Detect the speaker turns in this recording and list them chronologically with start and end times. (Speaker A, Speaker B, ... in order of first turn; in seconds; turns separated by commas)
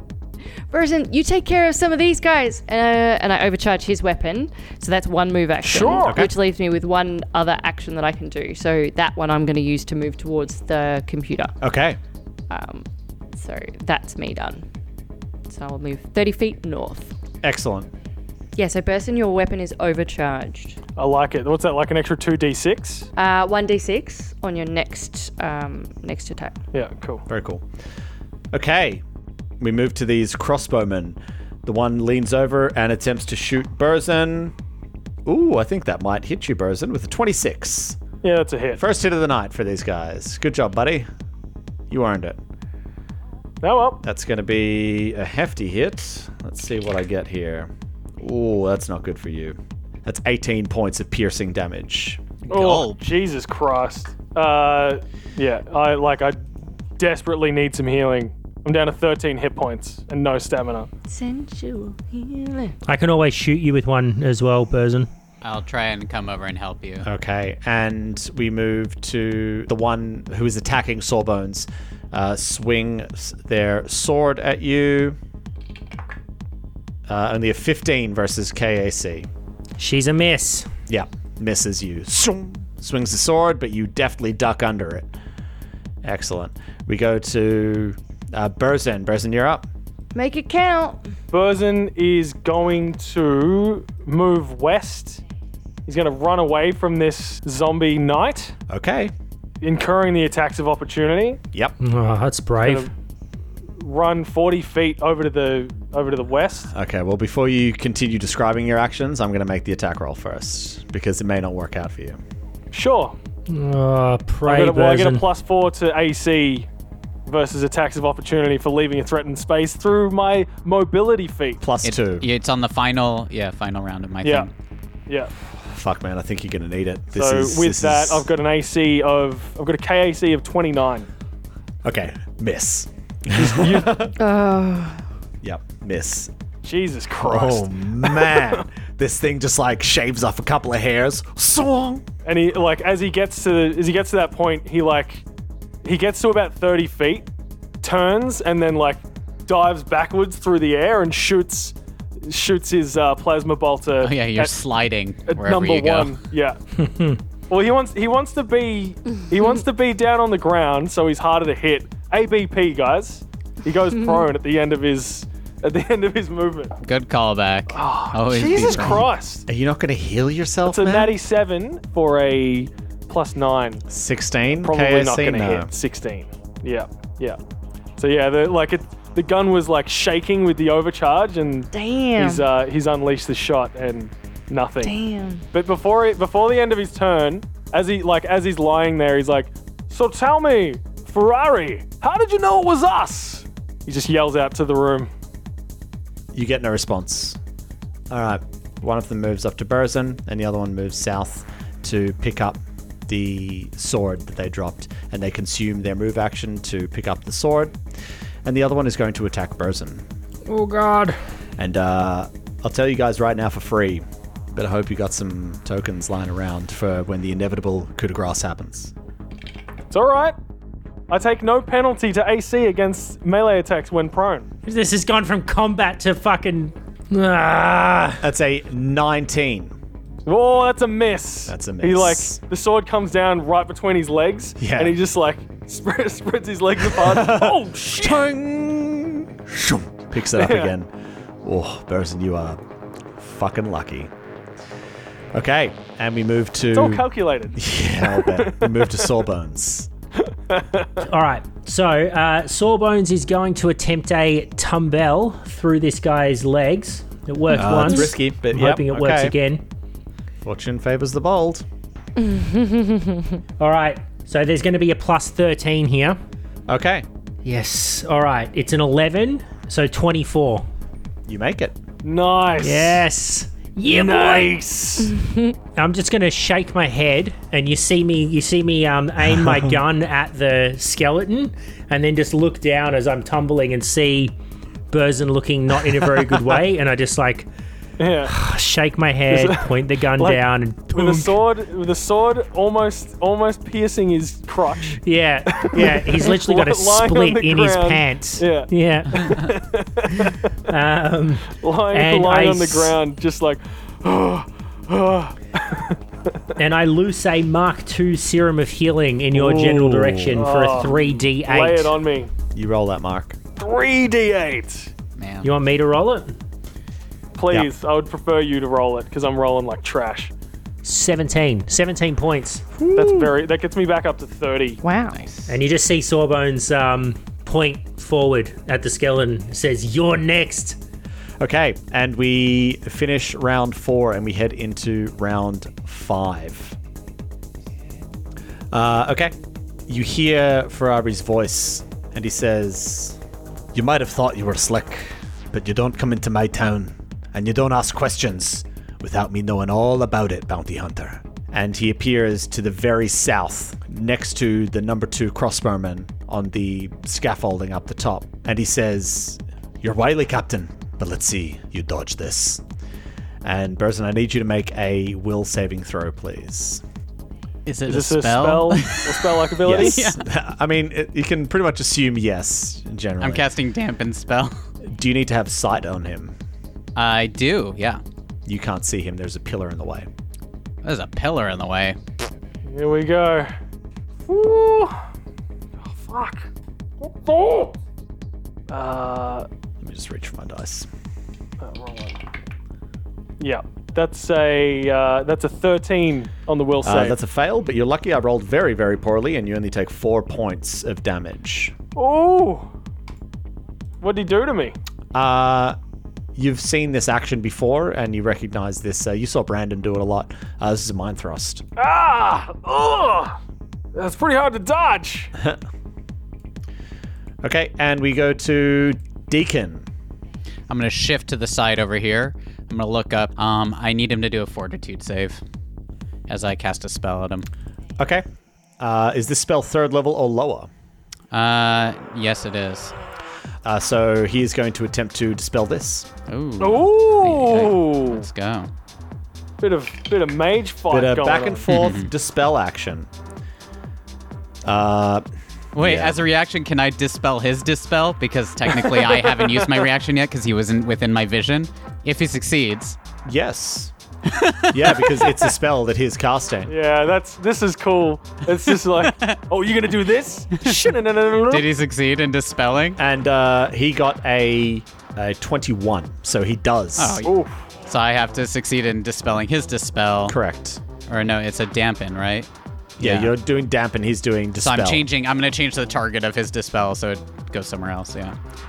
Speaker A: 0.7-11.6, Speaker B: 5.6-6.3, Speaker C: 6.0-6.3, Speaker C: 11.6-12.0, Speaker A: 12.5-14.7, Speaker A: 15.5-17.1, Speaker C: 17.4-17.9, Speaker A: 18.6-20.8, Speaker B: 21.0-23.1, Speaker A: 23.2-26.6, Speaker B: 26.7-27.2, Speaker C: 27.3-27.6, Speaker C: 28.5-29.0, Speaker C: 29.6-34.5, Speaker C: 35.3-38.0, Speaker B: 38.2-38.8, Speaker C: 38.8-41.1, Speaker C: 41.9-42.4, Speaker B: 43.6-44.0, Speaker C: 44.0-52.2, Speaker D: 52.5-53.0, Speaker B: 52.5-60.9, Speaker A: 61.1-62.8, Speaker E: 62.9-65.1, Speaker D: 65.4-67.1, Speaker C: 67.0-75.2, Speaker C: 77.1-79.3, Speaker E: 79.8-80.7, Speaker C: 80.9-85.2, Speaker C: 86.0-89.7, Speaker A: 90.2-91.1, Speaker B: 91.3-95.2, Speaker B: 95.9-98.5, Speaker C: 98.7-99.1, Speaker B: 99.6-101.4, Speaker E: 101.8-102.9, Speaker B: 102.6-102.9, Speaker B: 103.8-106.7, Speaker C: 106.7-112.2, Speaker B: 112.7-113.2, Speaker E: 113.5-115.3, Speaker B: 114.4-116.7, Speaker B: 117.3-121.6, Speaker C: 121.6-122.3, Speaker D: 121.8-124.5, Speaker B: 124.2-124.5, Speaker C: 125.7-128.3, Speaker B: 127.2-131.1, Speaker C: 131.8-134.1, Speaker B: 133.4-134.0, Speaker A: 134.2-135.0, Speaker C: 135.4-136.3, Speaker B: 136.6-138.7, Speaker C: 137.2-142.1, Speaker B: 142.2-145.2, Speaker B: 145.8-147.3, Speaker B: 147.8-154.5, Speaker D: 154.0-156.2, Speaker B: 155.3-156.6, Speaker E: 156.8-157.2, Speaker B: 157.5-166.7, Speaker D: 166.8-169.1, Speaker B: 167.7-169.5, Speaker C: 169.5-171.2, Speaker B: 170.7-173.8, Speaker C: 173.9-175.7, Speaker B: 174.6-177.4, Speaker B: 178.0-185.0, Speaker A: 181.7-182.5, Speaker A: 184.8-185.5, Speaker B: 185.5-195.1, Speaker C: 196.3-197.4, Speaker C: 198.1-207.8, Speaker C: 208.4-210.1, Speaker E: 210.5-211.2, Speaker C: 211.6-218.9, Speaker B: 219.9-220.4, Speaker B: 221.1-224.5, Speaker E: 224.6-228.2, Speaker C: 228.2-229.8, Speaker B: 230.2-238.3, Speaker C: 231.5-232.4, Speaker C: 234.6-235.0, Speaker C: 236.9-240.9, Speaker B: 240.3-240.7, Speaker C: 241.4-242.6, Speaker C: 243.2-244.1, Speaker C: 245.3-249.9, Speaker B: 246.7-249.1, Speaker B: 250.2-251.0, Speaker E: 251.0-259.6, Speaker C: 257.5-259.4, Speaker C: 260.4-261.6, Speaker A: 262.2-263.4, Speaker E: 263.6-266.2, Speaker C: 266.7-267.1, Speaker E: 267.4-270.7, Speaker C: 271.3-271.8, Speaker B: 272.0-273.1, Speaker E: 272.6-274.6, Speaker B: 273.9-275.2, Speaker A: 275.2-275.6, Speaker E: 275.8-284.4, Speaker E: 284.9-287.5, Speaker B: 288.0-288.4, Speaker E: 288.3-291.4, Speaker B: 289.3-300.6, Speaker E: 295.0-299.5, Speaker E: 300.1-303.0, Speaker B: 301.5-306.5, Speaker E: 306.6-312.0, Speaker B: 309.3-312.3, Speaker C: 312.5-313.4, Speaker B: 313.6-314.9, Speaker D: 315.2-315.5, Speaker E: 315.4-316.4, Speaker B: 317.4-320.3, Speaker E: 320.8-322.7, Speaker B: 322.9-324.8, Speaker A: 324.8-325.2, Speaker D: 325.1-325.6, Speaker E: 325.5-330.8, Speaker C: 331.4-336.8, Speaker C: 338.7-339.3, Speaker C: 339.9-343.2, Speaker C: 343.8-362.6, Speaker C: 363.4-366.8, Speaker D: 367.7-370.2, Speaker B: 367.9-370.1, Speaker C: 369.6-373.4, Speaker D: 373.2-374.6, Speaker C: 374.8-376.4, Speaker D: 377.0-378.0, Speaker C: 378.5-380.1, Speaker D: 380.8-382.0, Speaker B: 382.7-383.5, Speaker B: 384.3-385.0, Speaker B: 385.8-386.5, Speaker B: 387.0-387.7, Speaker B: 388.7-389.5, Speaker C: 389.8-390.9, Speaker B: 391.6-392.2, Speaker B: 393.4-397.2, Speaker C: 396.8-401.7, Speaker B: 401.9-402.7, Speaker B: 404.0-404.8, Speaker C: 405.1-405.8, Speaker C: 406.4-411.6, Speaker B: 411.8-413.4, Speaker B: 413.9-415.3, Speaker C: 417.4-419.9, Speaker D: 420.7-425.4, Speaker D: 426.3-427.5, Speaker C: 428.0-428.2, Speaker C: 428.8-430.7, Speaker D: 431.3-432.9, Speaker C: 433.6-436.1, Speaker D: 436.3-438.7, Speaker B: 436.6-438.3, Speaker B: 439.6-441.8, Speaker C: 440.9-443.1, Speaker D: 441.7-442.1, Speaker C: 444.6-445.2, Speaker D: 445.7-453.0, Speaker C: 445.8-446.2, Speaker B: 448.8-449.6, Speaker C: 453.2-453.9, Speaker D: 454.3-455.4, Speaker C: 454.7-456.7, Speaker B: 456.7-461.7, Speaker D: 458.8-459.4, Speaker D: 460.5-463.0, Speaker C: 463.0-467.2, Speaker D: 467.0-467.3, Speaker B: 467.2-467.6, Speaker D: 467.9-470.4, Speaker C: 470.3-470.8, Speaker D: 471.1-472.5, Speaker D: 473.0-473.3, Speaker C: 473.0-475.0, Speaker D: 474.6-478.4